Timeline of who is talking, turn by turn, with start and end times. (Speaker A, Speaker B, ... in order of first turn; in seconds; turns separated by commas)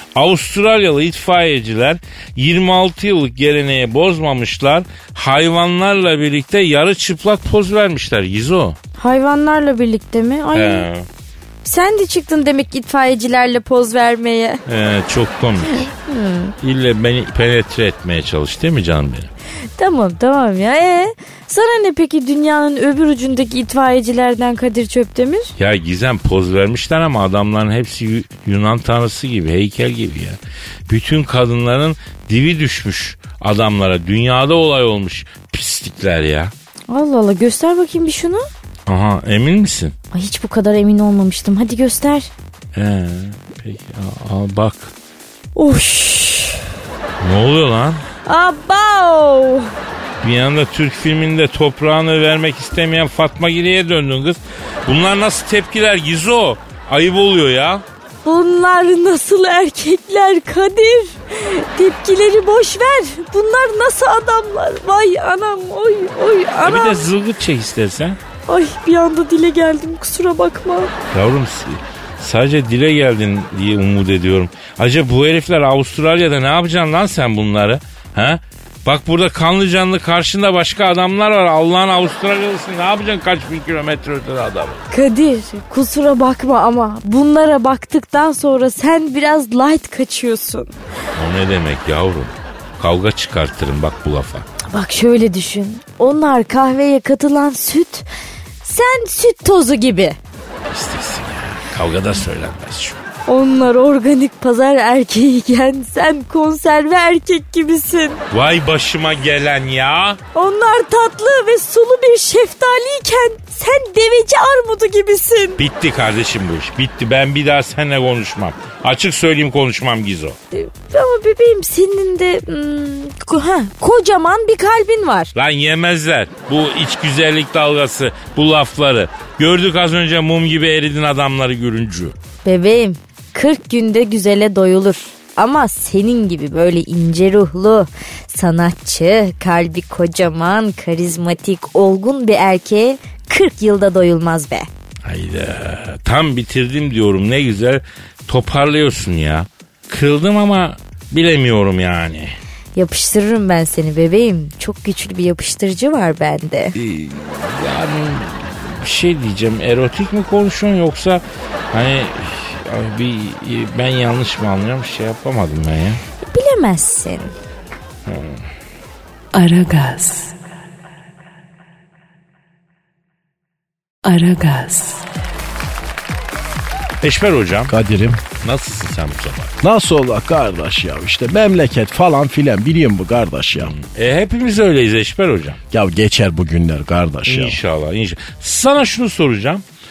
Speaker A: 0.1-8.8, Speaker B: 9.0-10.9, Speaker A: 10.5-11.1, Speaker B: 11.6-14.6, Speaker A: 14.7-15.9, Speaker B: 15.8-16.6, Speaker A: 16.6-19.3, Speaker B: 19.8-25.5, Speaker A: 25.6-36.5, Speaker B: 36.9-38.5, Speaker A: 38.9-40.0, Speaker B: 40.1-42.3, Speaker A: 42.7-44.9, Speaker B: 45.6-46.6, Speaker A: 47.2-48.0, Speaker B: 48.3-49.7, Speaker A: 50.2-57.8, Speaker B: 58.2-67.1, Speaker A: 66.6-68.2, Speaker B: 68.5-70.9, Speaker A: 71.1-84.8, Speaker B: 84.9-90.7, Speaker A: 91.2-94.5, Speaker B: 94.7-98.1, Speaker B: 98.6-100.2, Speaker A: 100.7-103.0, Speaker B: 103.3-108.2, Speaker A: 108.3-110.2, Speaker B: 110.3-115.6, Speaker A: 115.6-120.4, Speaker B: 120.5-125.3, Speaker A: 125.3-132.2, Speaker B: 132.4-144.7, Speaker A: 145.0-152.4, Speaker B: 152.8-156.8, Speaker A: 156.8-166.0, Speaker B: 166.2-167.3, Speaker A: 168.1-168.4, Speaker C: 169.3-170.3, Speaker C: 174.0-175.1, Speaker A: 177.0-177.8, Speaker D: 177.7-178.2, Speaker A: 178.4-179.5, Speaker D: 179.6-183.7, Speaker A: 183.6-185.6, Speaker D: 185.7-187.6, Speaker A: 187.3-189.6